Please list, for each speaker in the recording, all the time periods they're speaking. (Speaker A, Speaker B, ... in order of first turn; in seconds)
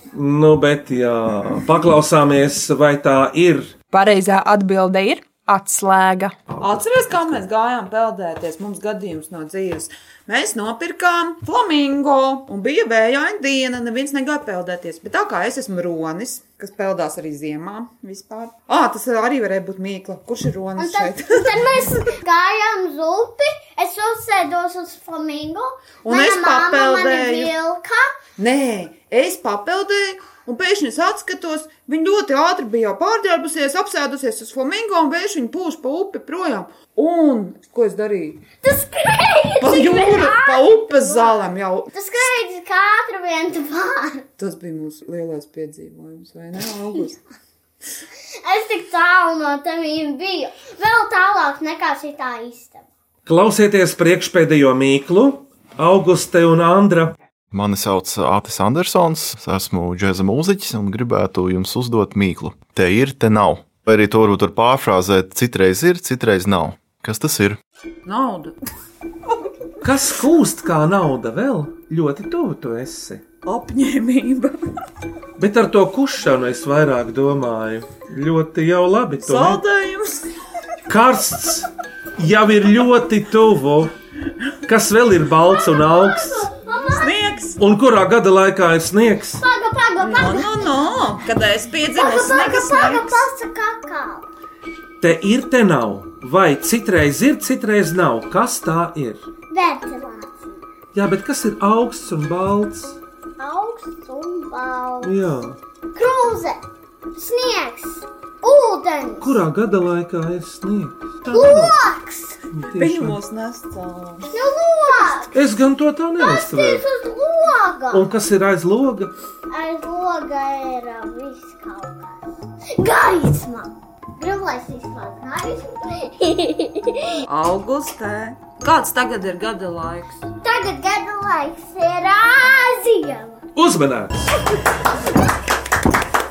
Speaker A: 0.1-3.7, 6.5-7.4, 53.2-57.1, 69.8-73.2, 75.4-79.6, 80.9-83.9, 84.7-86.5, 87.6-89.4, 95.0-99.2, 100.9-103.0, 105.0-105.6, 109.2-111.8, 112.5-113.2, 115.3-116.8, 117.9-119.1, 133.5-134.3
Speaker B: 3.9-6.4
Speaker C: 6.6-21.8, 26.0-27.5, 28.4-38.4, 39.6-42.2, 44.4-47.2, 68.0-68.5, 73.4-74.5, 79.2-80.3, 87.0-87.6, 90.0-93.2, 112.7-114.3, 127.3-130.2
Speaker D: 20.8-28.2, 38.6-44.2, 48.4-52.8, 85.6-87.2, 89.4-90.8, 92.0-94.3, 99.5-100.6, 103.4-105.1, 105.9-106.6, 107.2-109.4, 111.3-112.3, 114.3-115.3, 116.2-118.1, 119.5-127.1, 130.4-133.4
Speaker E: 57.5-67.6